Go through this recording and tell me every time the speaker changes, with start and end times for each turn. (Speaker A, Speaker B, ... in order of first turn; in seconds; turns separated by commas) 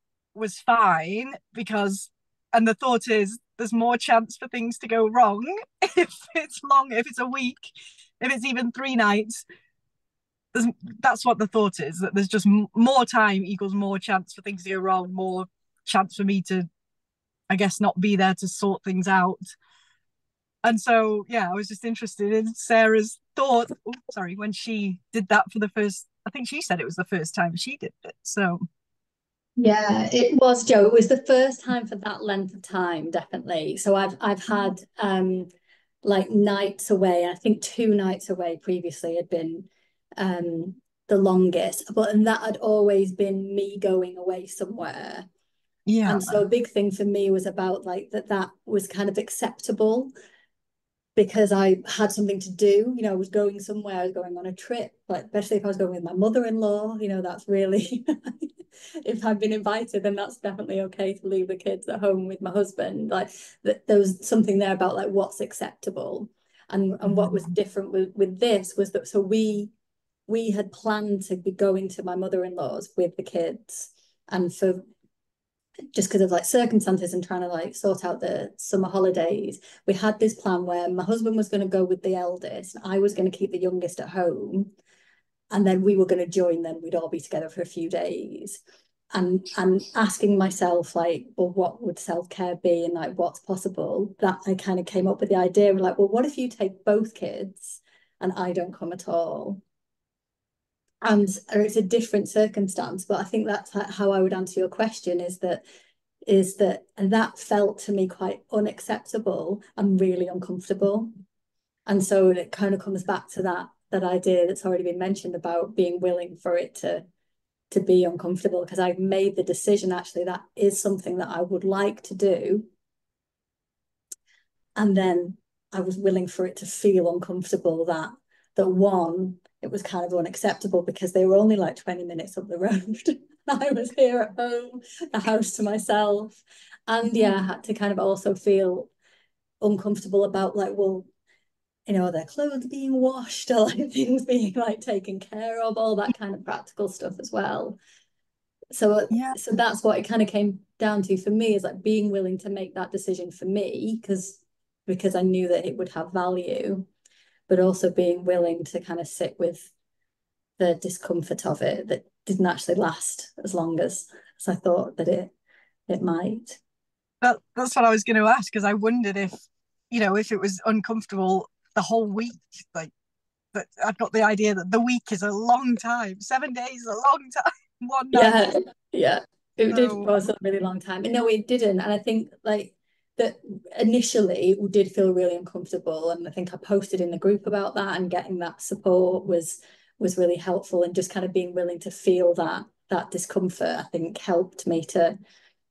Speaker A: 0.3-9.4, Speaker A: 10.5-16.7, Speaker A: 17.5-19.5, Speaker A: 20.6-28.6, Speaker B: 29.6-35.5, Speaker B: 36.0-45.3, Speaker A: 45.9-46.4, Speaker B: 46.0-50.1, Speaker B: 51.2-58.5, Speaker B: 59.0-69.7, Speaker A: 67.1-67.4, Speaker B: 70.3-74.9, Speaker B: 75.9-84.7, Speaker B: 85.5-88.6, Speaker B: 89.1-99.6, Speaker B: 101.0-105.6, Speaker B: 106.2-111.1, Speaker B: 111.9-117.1, Speaker B: 117.7-122.7, Speaker B: 124.8-138.9, Speaker B: 139.6-141.1, Speaker B: 141.9-147.8, Speaker B: 148.7-156.9, Speaker A: 149.1-149.4, Speaker B: 157.5-159.7, Speaker B: 160.6-165.3, Speaker B: 165.9-166.6, Speaker A: 167.2-172.9, Speaker A: 173.5-178.4, Speaker B: 178.1-195.2, Speaker A: 179.7-180.2